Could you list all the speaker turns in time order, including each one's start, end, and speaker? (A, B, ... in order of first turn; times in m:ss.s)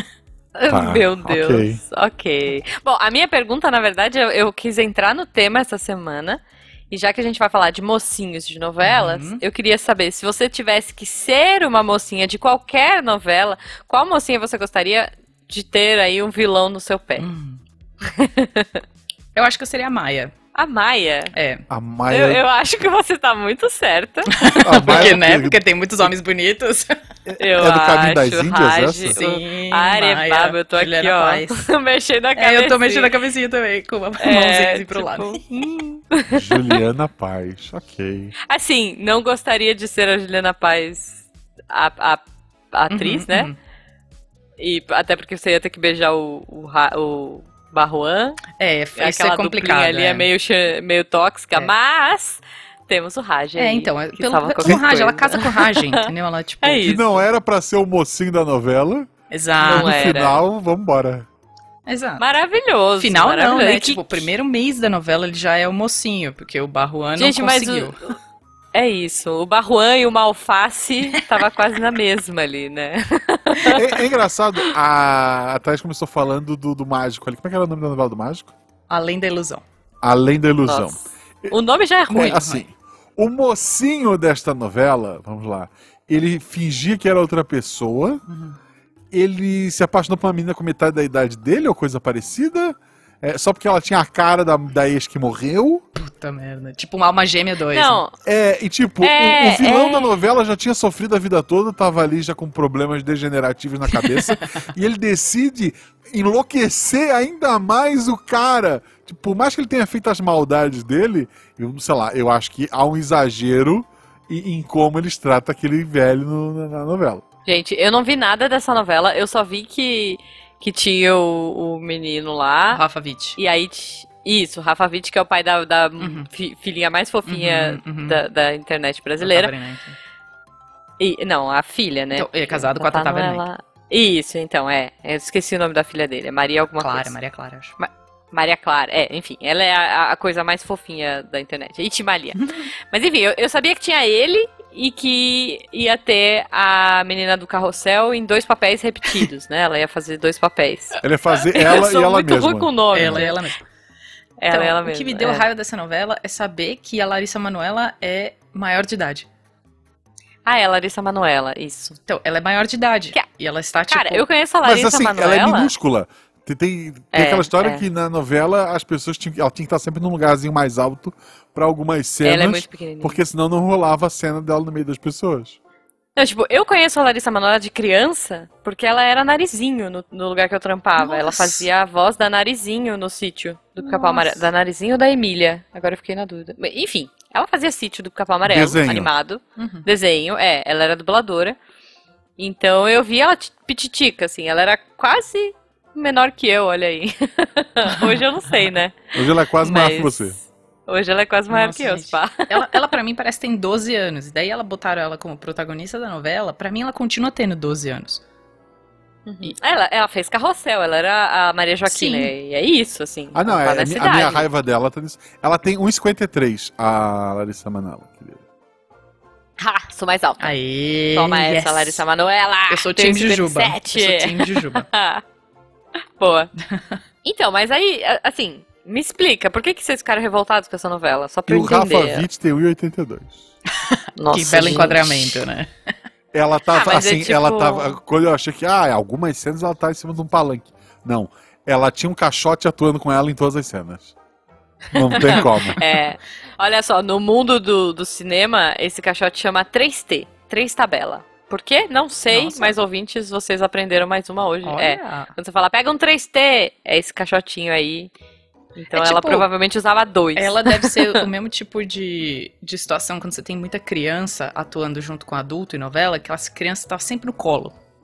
0:00.6-0:17.2 A
0:00.7-0:01.8 B
0:08.8-0:09.4 C
0:17.2-0:17.6 C
0:18.0-0:18.8 A
0:19.3-0:20.3 C
0:20.5-0:21.3 A
0:21.3-0:21.6 C
0:21.7-0:22.4 B
0:22.1-0:24.3 A
0:24.3-0:26.9 C
0:24.6-0:25.6 B
0:27.2-0:29.2 B
0:27.4-0:33.1 A
0:29.1-0:31.6 C
0:32.4-0:35.4 C
0:34.2-0:36.8 A
0:36.3-0:38.3 B
0:38.4-0:43.5 A
0:42.9-0:43.5 C
0:44.6-0:48.4 A
0:48.6-0:50.3 C
0:49.0-0:56.0 A
0:53.6-0:57.1 C
0:56.6-0:57.1 A
0:56.8-0:59.1 B
0:59.3-1:00.1 C
0:59.6-1:00.4 A
0:59.6-1:01.3 B
1:01.8-1:02.2 C
1:02.2-1:04.2 A
1:03.0-1:08.0 C
1:07.2-1:08.1 A
1:08.7-1:13.8 A
1:13.7-1:18.5 B
1:18.9-1:19.6 C
1:20.0-1:21.5 B
1:20.6-1:22.4 A
1:22.1-1:28.2 B
1:22.1-1:22.6 C
1:28.3-1:28.6 C
1:29.1-1:35.8 B
1:35.9-1:38.0 C
1:37.7-1:38.1 A
1:38.2-1:57.2 B
1:39.0-1:40.2 A
1:43.9-1:44.6 C
1:57.4-2:02.8 A
2:02.7-2:03.4 C
2:03.4-2:09.5 A
2:06.0-2:06.3 C
2:07.3-2:08.2 C
2:09.2-2:10.0 C
2:11.0-2:17.1 A
2:12.1-2:13.4 C
2:16.7-2:17.7 C
2:17.8-2:33.4 A
2:31.0-2:33.3 B
2:32.9-2:33.6 C
2:34.4-2:35.4 A
2:34.5-2:39.3 C
2:40.4-2:42.0 A
2:42.1-2:44.3 C
2:43.9-2:45.7 A
2:44.6-2:55.6 B
2:47.1-2:47.8 A
2:52.2-2:53.2 A
2:56.2-3:11.6 A
3:01.0-3:01.7 C
3:03.8-3:04.5 C
3:08.5-3:09.1 B
3:09.6-3:09.8 C
3:12.4-3:22.6 A
3:19.1-3:20.4 B
3:21.5-3:28.2 C
3:29.2-3:34.4 A
3:31.9-3:32.3 C
3:33.3-3:38.4 B
3:39.6-3:40.5 A
3:40.4-3:42.0 C
3:41.1-3:45.2 A
3:42.7-3:44.9 C
3:46.2-3:46.5 A
3:47.2-3:52.3 A
3:51.5-3:53.5 B
3:54.2-3:55.4 A
3:54.3-3:55.7 C
3:56.3-4:04.1 B
3:56.7-3:58.0 A
4:04.9-4:05.8 B
4:04.9-4:18.1 A
4:05.2-4:05.8 C
4:12.3-4:12.7 C
4:14.6-4:15.3 C
4:18.8-4:21.2 A
4:18.9-4:19.5 C
4:20.4-4:27.7 C